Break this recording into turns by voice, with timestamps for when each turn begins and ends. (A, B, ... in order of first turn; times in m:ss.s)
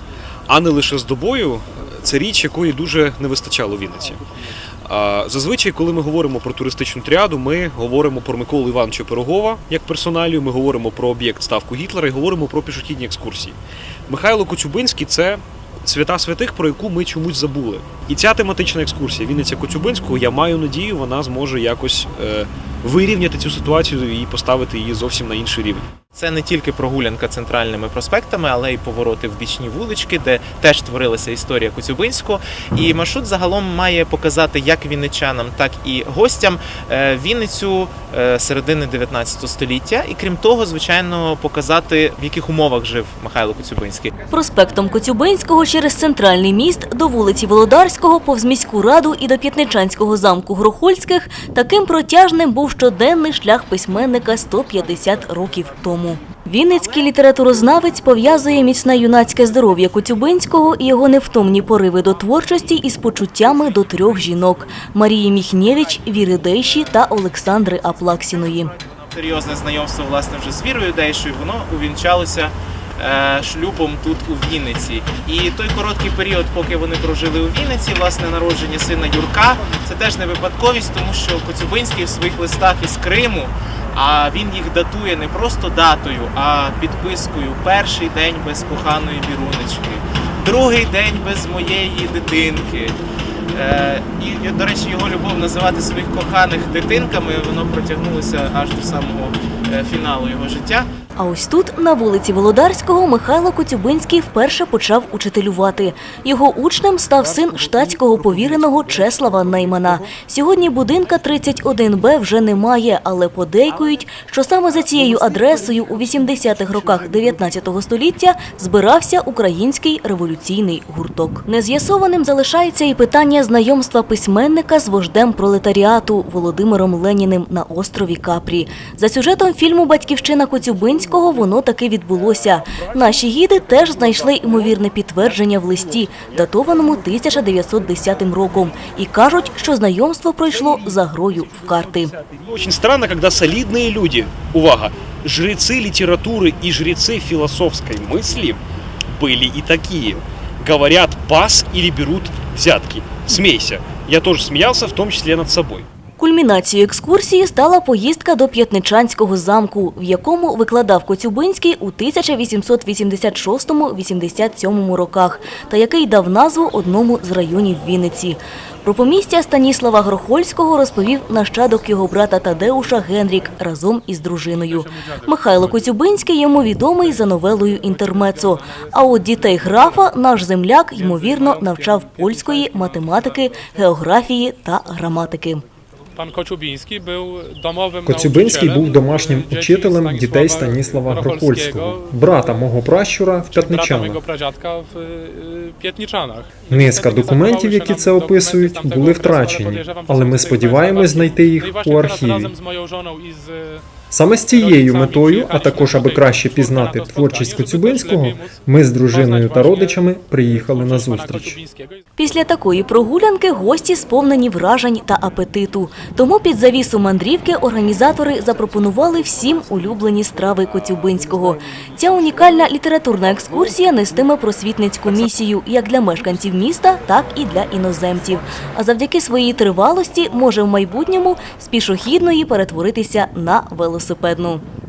0:00.5-0:04.2 A
0:04.8-0:13.6 A
0:14.1-0:25.9 A
0:26.1-0:44.1 B
0:44.3-1:08.7 C
1:08.0-1:33.0 B
1:33.5-1:40.9 B
1:41.2-2:22.1 C
2:22.4-2:35.8 A
2:36.2-3:05.6 C
2:54.7-2:55.6 D
2:58.0-2:59.8 D
3:01.0-3:03.2 D
3:06.2-3:12.6 D
3:08.0-3:14.2 E
3:13.5-3:23.8 D
3:16.7-3:22.5 E
3:24.1-3:31.6 E
3:24.5-3:28.6 D
3:29.1-3:32.0 D
3:32.2-3:54.6 C